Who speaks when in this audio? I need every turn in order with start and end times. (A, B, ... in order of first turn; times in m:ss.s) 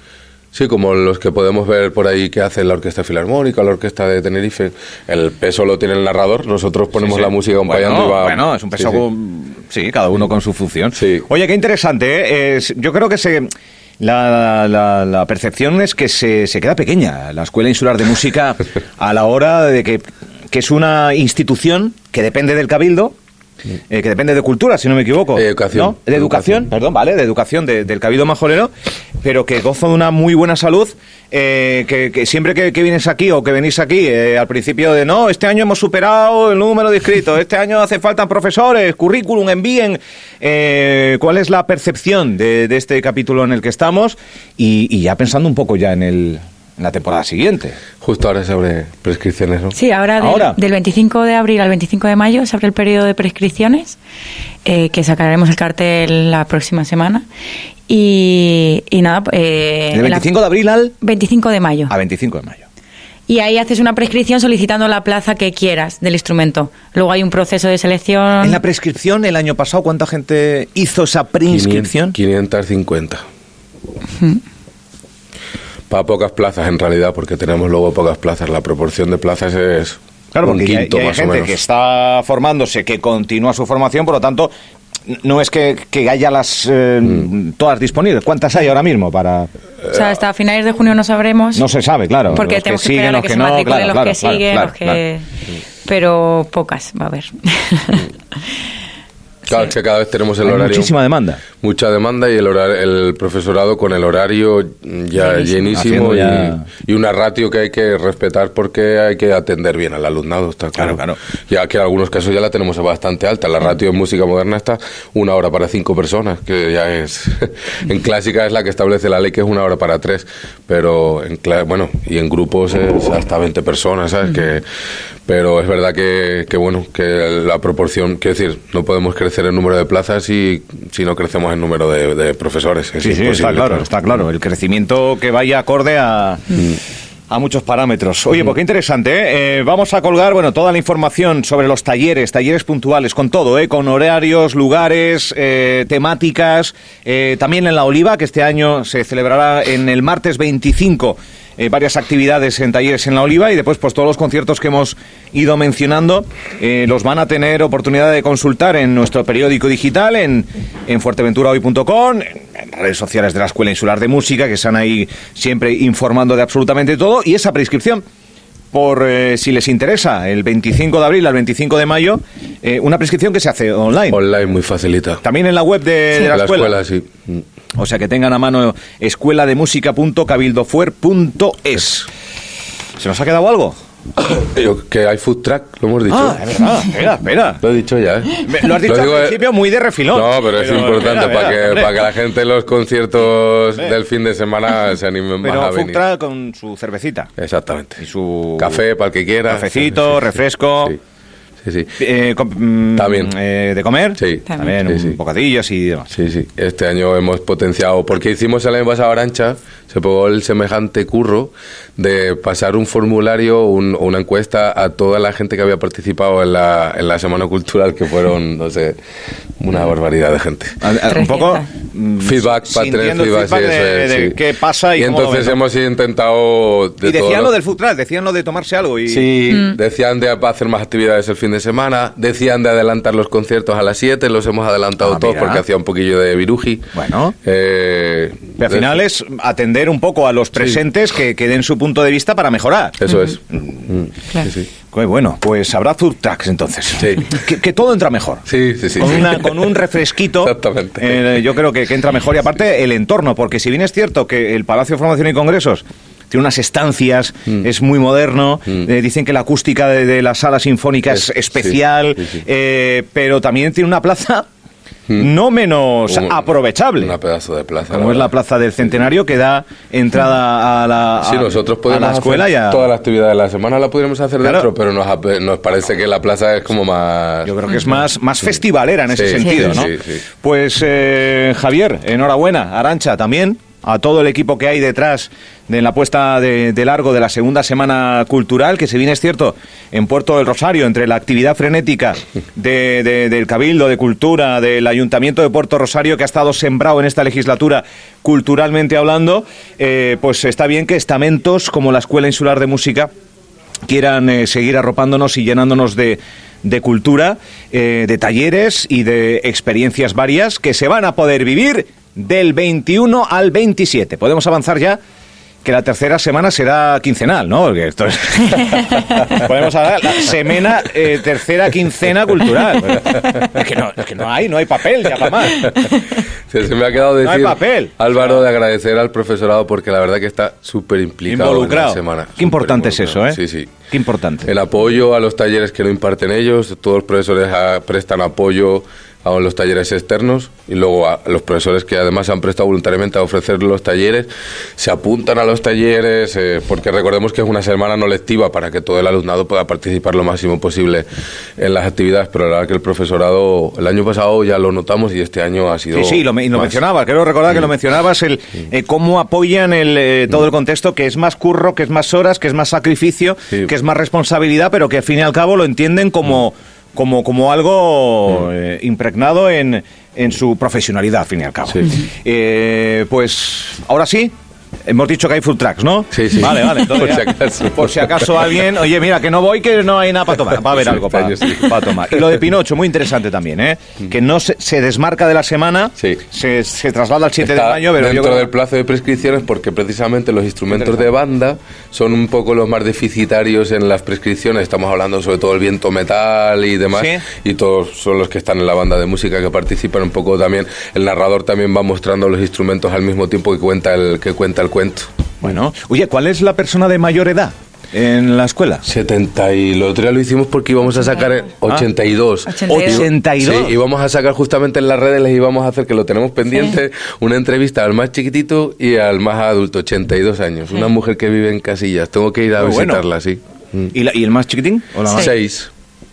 0:00.5-0:09.0 A
0:07.0-0:23.2 B
0:10.9-0:11.2 A
0:23.9-0:28.7 B
0:25.4-0:26.6 A
0:29.2-0:47.8 B
0:48.0-0:49.7 A
0:49.7-0:54.0 C
0:50.2-0:50.6 B
0:54.6-0:57.2 C
0:57.9-1:00.3 C
0:59.9-1:01.0 B
1:01.0-1:01.9 C
1:01.9-1:02.6 B
1:03.3-1:08.6 C
1:08.4-1:12.2 B
1:11.5-1:13.2 A
1:15.9-1:21.6 A
1:20.3-1:24.5 B
1:25.1-1:29.5 B
1:29.8-1:31.6 C
1:31.5-1:35.0 B
1:32.3-1:35.2 C
1:35.8-1:38.1 C
1:39.5-1:41.0 A
1:40.4-1:41.4 B
1:41.6-2:04.6 A
1:45.2-1:45.7 C
1:45.7-1:46.6 B
1:50.8-1:51.2 B
2:05.2-2:13.9 A
2:13.0-2:16.7 B
2:17.3-2:48.0 B
2:48.7-2:54.2 B
2:54.1-2:55.2 A
2:55.2-2:56.8 B
2:56.2-2:57.4 A
2:57.7-3:02.1 B
3:03.0-3:03.8 B
3:04.2-3:06.4 A
3:06.1-3:07.6 B
3:07.6-3:09.5 A
3:08.4-3:12.0 B
3:10.1-3:16.0 A
3:15.4-3:17.3 B
3:17.4-3:18.0 A
3:18.0-3:18.8 B
3:18.6-3:20.2 A
3:19.5-3:21.0 B
3:21.6-3:22.0 A
3:22.0-3:26.1 B
3:22.9-3:23.3 A
3:24.2-3:25.2 A
3:24.5-3:24.7 C
3:26.1-3:39.0 A
3:39.6-3:40.8 A
3:40.8-3:45.6 B
3:41.1-3:41.6 C
3:42.2-3:44.4 A
3:45.0-3:47.6 A
3:47.0-3:49.3 B
3:49.1-3:59.0 A
3:49.5-3:49.8 C
3:55.0-3:55.6 B
3:56.9-3:57.3 B
3:58.6-4:03.0 B
4:03.0-4:04.7 A
4:03.5-4:03.9 B
4:04.9-4:24.5 B
4:07.0-4:07.3 A
4:08.4-4:09.8 A
4:10.3-4:11.4 A
4:25.1-4:27.2 B
4:26.1-4:26.4 A
4:27.0-4:28.3 A
4:27.9-4:32.9 B
4:31.2-4:37.5 A
4:34.4-4:34.7 B
4:37.4-5:03.1 B
4:39.1-4:40.2 A
5:03.8-5:15.0 B
5:15.6-5:25.9 B
5:26.5-5:33.7 A
5:27.2-5:28.4 B
5:31.2-5:34.5 B
5:34.4-5:51.1 A
5:51.6-5:56.7 A
5:55.9-6:28.5 B
6:16.1-6:18.3 A
6:20.7-6:22.3 A
6:27.4-6:45.1 A
6:30.7-6:31.1 B
6:36.9-6:37.2 B
6:45.4-6:48.8 B
6:48.8-7:03.9 A
6:52.4-6:53.1 C
6:52.7-6:53.8 B
7:02.6-7:03.0 B
7:03.9-7:05.3 B
7:05.1-7:05.7 A